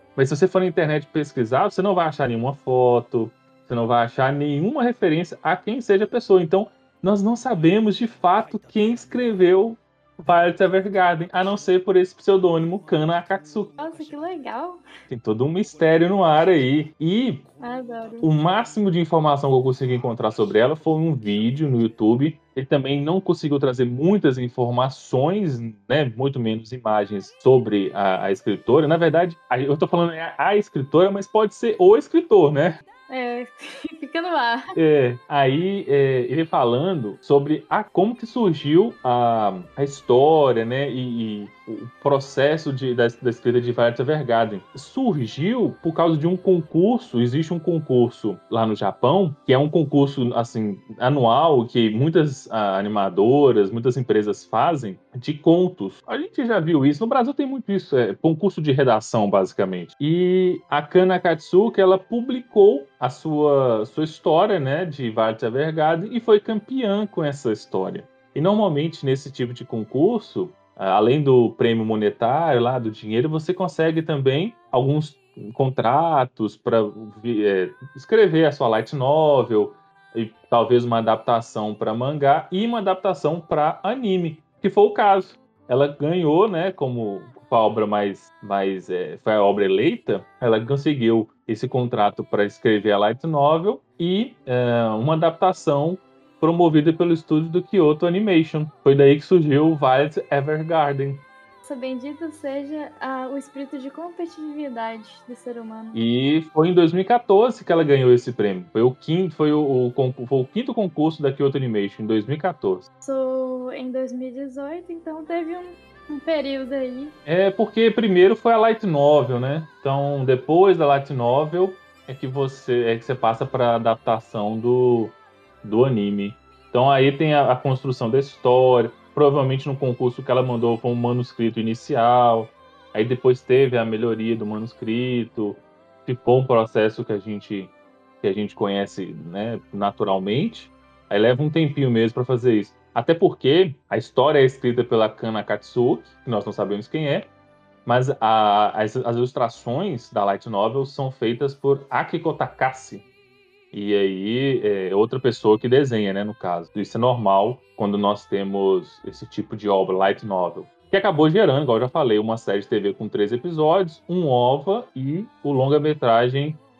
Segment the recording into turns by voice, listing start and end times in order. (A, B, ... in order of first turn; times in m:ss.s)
0:00.2-0:13.8 A
0:13.8-0:14.8 B
0:15.1-0:17.4 A
0:17.6-0:18.3 B
0:18.2-0:32.8 A
0:33.1-0:34.7 B
0:34.7-1:41.2 A
1:41.6-1:46.0 B
1:45.9-1:52.8 A
1:53.0-1:57.2 B
1:57.2-2:27.3 A
2:27.8-2:33.0 A
2:33.7-2:46.6 A